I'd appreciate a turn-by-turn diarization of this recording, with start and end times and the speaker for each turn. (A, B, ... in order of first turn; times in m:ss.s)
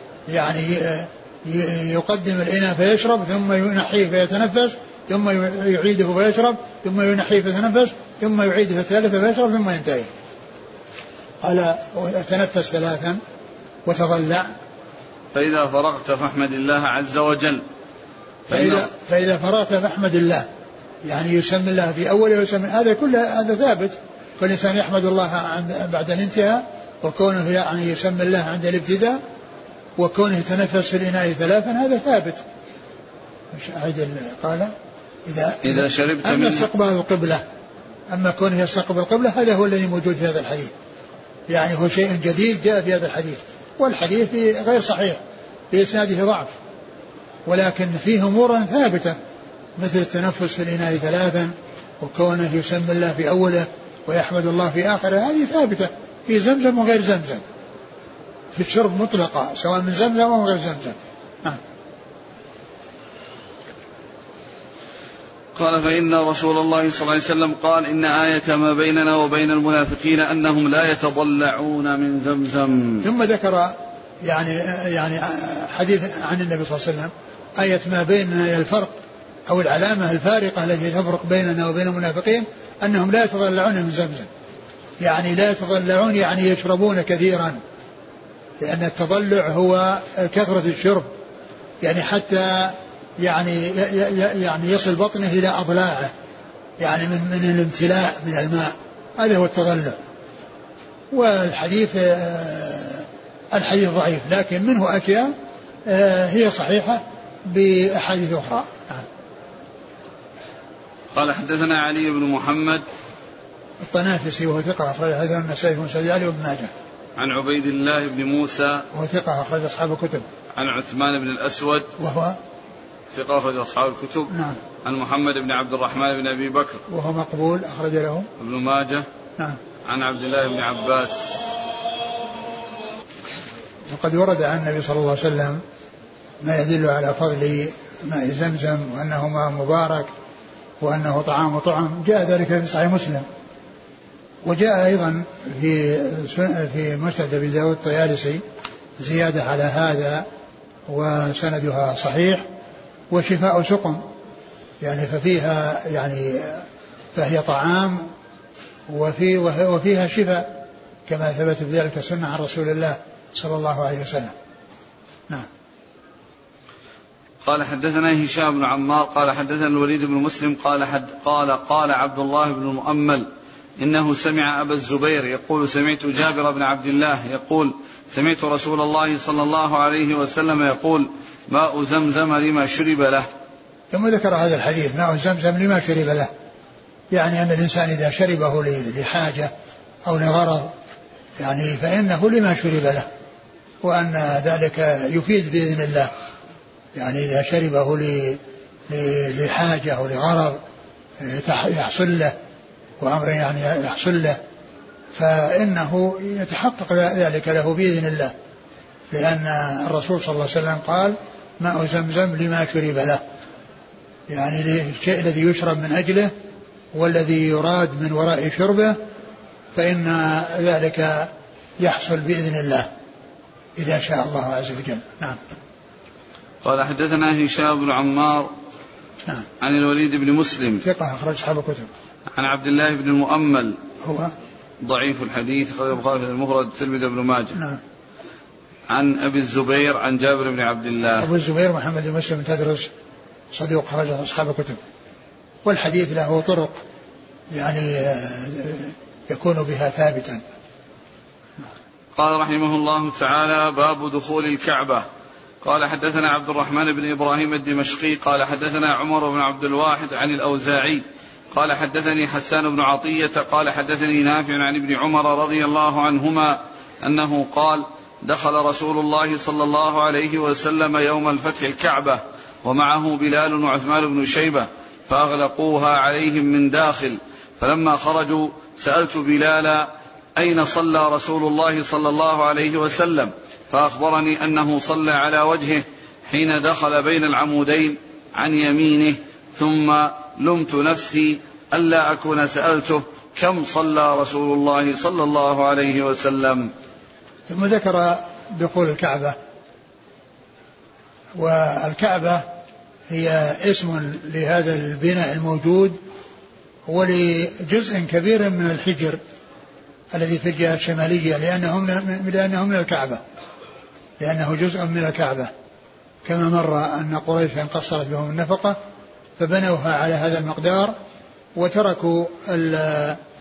0:00.3-0:10.1 A
0:11.4-0:13.2 A
0:13.9-0:14.5 A
0:15.3-0:17.6 B
0:18.5-0:18.9 B
0:18.5-0:20.5 A
0:21.0-0:29.2 A
0:30.0-0:32.4 A
0:33.5-0:34.7 A
0:35.3-0:37.4 A
0:35.6-0:36.7 B
0:38.1-0:40.7 A
0:41.5-0:45.2 A
0:45.7-0:46.6 A
0:47.5-0:49.2 A
0:49.8-0:57.4 A
0:58.6-1:01.6 A
1:05.6-1:13.1 B
1:13.0-1:19.0 A
1:19.5-1:24.3 A
1:25.0-1:27.6 A
1:28.6-1:31.1 A
1:31.8-1:36.1 A
1:36.8-1:40.0 A
1:41.1-1:45.3 A
1:45.9-1:49.0 A
1:51.1-1:52.8 B
1:53.8-1:56.7 A
1:57.2-1:58.9 B
1:58.9-2:00.2 A
2:00.6-2:01.9 B
2:02.0-2:02.4 A
2:03.1-2:06.8 B
2:04.3-2:04.6 A
2:06.9-2:08.3 A
2:08.4-2:09.1 B
2:09.8-2:11.5 B
2:13.9-2:15.6 A
2:16.4-2:20.1 A
2:20.8-2:23.3 A
2:24.4-2:28.4 A
2:29.0-2:30.3 A
2:30.9-2:32.4 A
2:33.1-2:34.0 A
2:34.8-2:36.6 A
2:37.2-2:38.1 A
2:38.9-2:40.5 A
2:41.1-2:44.3 A
2:47.4-3:03.3 B
3:03.9-3:06.3 A
3:07.1-3:09.5 A
3:10.0-3:10.7 A
3:11.4-3:13.1 A
3:13.8-3:16.1 A
3:17.0-3:20.6 A
3:21.2-3:22.3 A
3:23.0-3:24.4 A
3:25.2-3:28.3 A
3:29.1-3:33.2 A
3:34.3-3:36.3 A
3:36.9-3:39.0 A
3:39.8-3:42.9 A
3:43.8-3:45.4 A
3:46.6-3:48.5 B
3:49.6-3:50.8 B
3:50.8-3:51.9 A
3:52.3-3:53.8 B
3:54.0-3:54.3 A
3:54.8-3:57.6 B
3:58.9-4:01.3 B
4:01.2-4:02.9 A
4:03.5-4:04.8 A
4:05.6-4:06.8 A
4:07.5-4:10.4 A
4:12.2-4:15.0 B
4:15.6-4:56.7 B
4:57.5-4:59.4 A
5:01.4-5:02.4 A
5:03.1-5:06.0 A
5:06.9-5:09.2 A
5:10.1-5:13.2 A
5:14.2-5:15.5 A
5:16.2-5:18.8 A
5:19.4-5:20.9 A
5:21.6-5:23.2 A